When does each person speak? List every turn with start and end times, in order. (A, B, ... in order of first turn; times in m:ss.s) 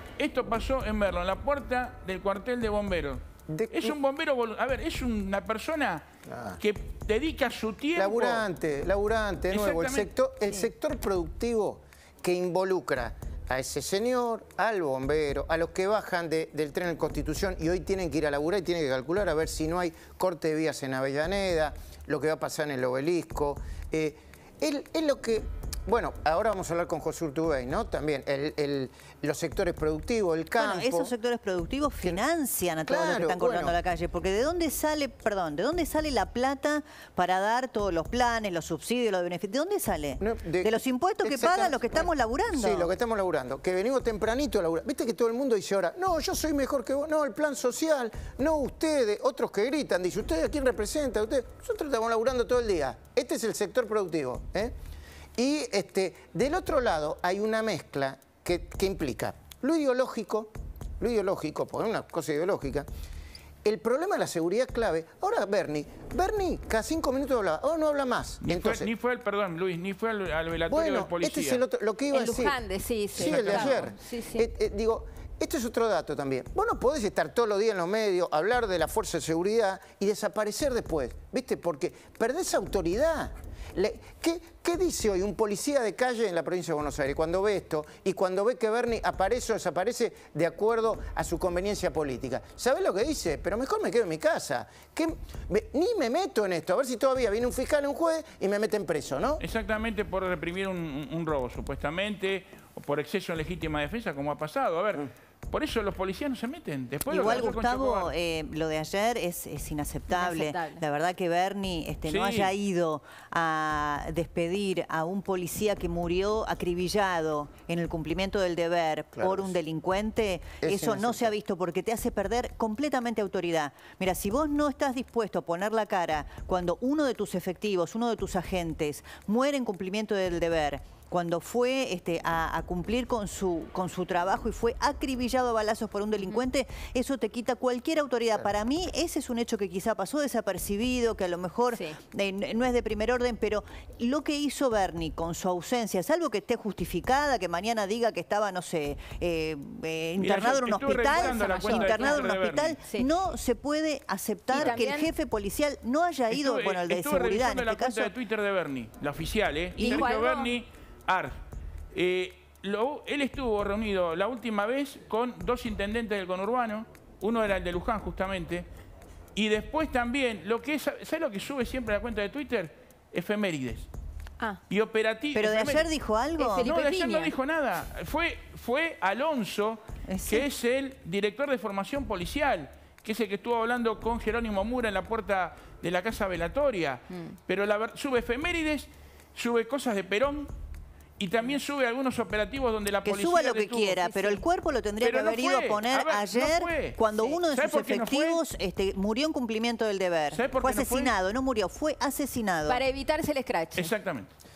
0:00.2-0:06.0 A
0:03.5-0:04.0 B
0:06.3-0:06.6 B
0:06.6-0:08.4 A
0:08.0-0:31.1 B
0:09.5-0:10.1 A
0:30.5-0:42.9 C
0:32.8-0:33.7 B
0:40.2-0:54.7 B
0:55.4-1:02.8 B
1:03.6-1:08.9 B
1:08.4-1:11.6 A
1:10.7-1:12.6 B
1:12.1-1:14.5 D
1:13.1-1:39.4 B
1:13.2-1:13.8 A
1:39.4-1:48.1 A
1:47.1-2:38.1 C
1:50.1-1:50.8 D
1:52.0-1:52.5 A
1:59.1-1:59.6 B
2:00.6-2:01.3 B
2:21.7-2:22.0 D
2:30.2-2:32.8 A
2:30.8-2:32.3 D
2:34.5-2:35.1 D
2:34.5-2:34.8 A
2:36.3-2:41.3 A
2:39.8-2:40.0 C
2:39.8-2:40.5 D
2:41.9-2:48.6 A
2:49.3-2:53.9 A
2:54.7-2:55.9 A
2:55.3-2:56.7 C
2:56.4-2:57.3 D
2:56.6-3:10.5 A
3:00.0-3:00.5 C
3:11.2-3:14.0 A
3:13.0-3:22.8 C
3:14.0-3:14.4 D
3:15.0-3:18.4 A
3:20.3-3:21.1 A
3:22.7-3:23.9 D
3:23.7-3:24.3 A